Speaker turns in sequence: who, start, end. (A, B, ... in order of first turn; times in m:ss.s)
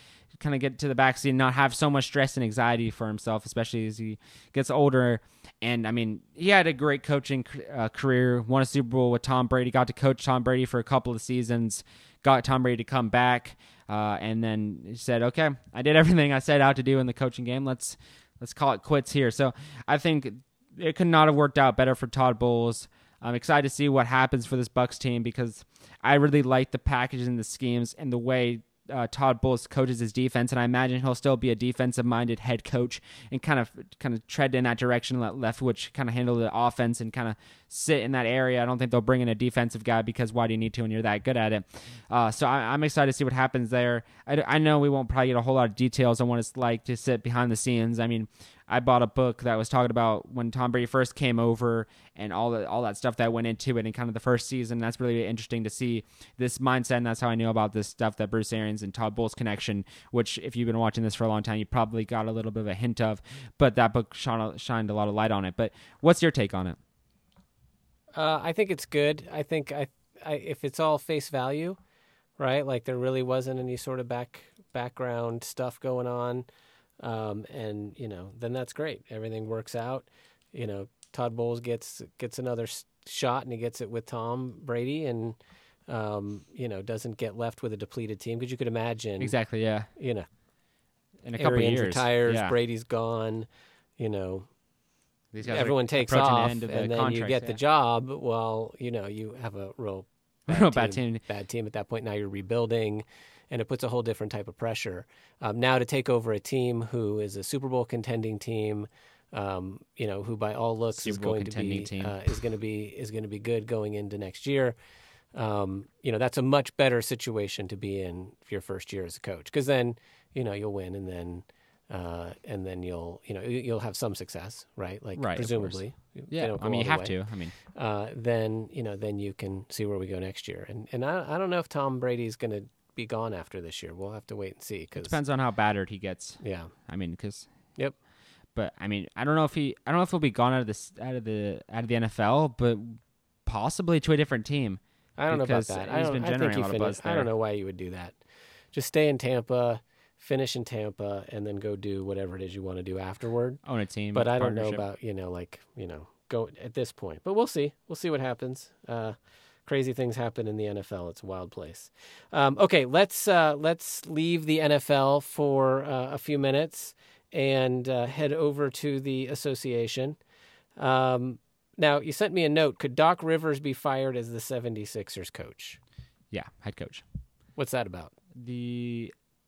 0:00.4-1:06.8 A
1:08.1-1:11.8 B
1:12.4-1:16.5 B
1:17.0-1:25.4 B
1:25.9-1:29.4 B
1:29.2-1:29.9 A
1:30.0-1:30.3 B
1:31.2-1:32.6 A
1:31.4-1:34.5 B
1:35.3-1:37.6 A
1:35.4-1:54.8 B
1:40.5-1:41.2 A
1:50.9-1:52.2 A
1:55.3-2:07.2 B
2:05.2-2:05.8 A
2:06.3-2:07.5 A
2:07.7-2:15.2 B
2:15.0-2:17.5 A
2:16.4-2:16.7 B
2:18.6-2:27.3 A
2:25.2-2:28.2 B
2:28.7-2:33.6 B
2:33.6-2:34.8 A
2:34.1-2:50.2 B
2:50.8-2:55.8 B
2:56.3-2:57.0 A
2:57.6-2:58.1 B
2:58.4-2:59.1 A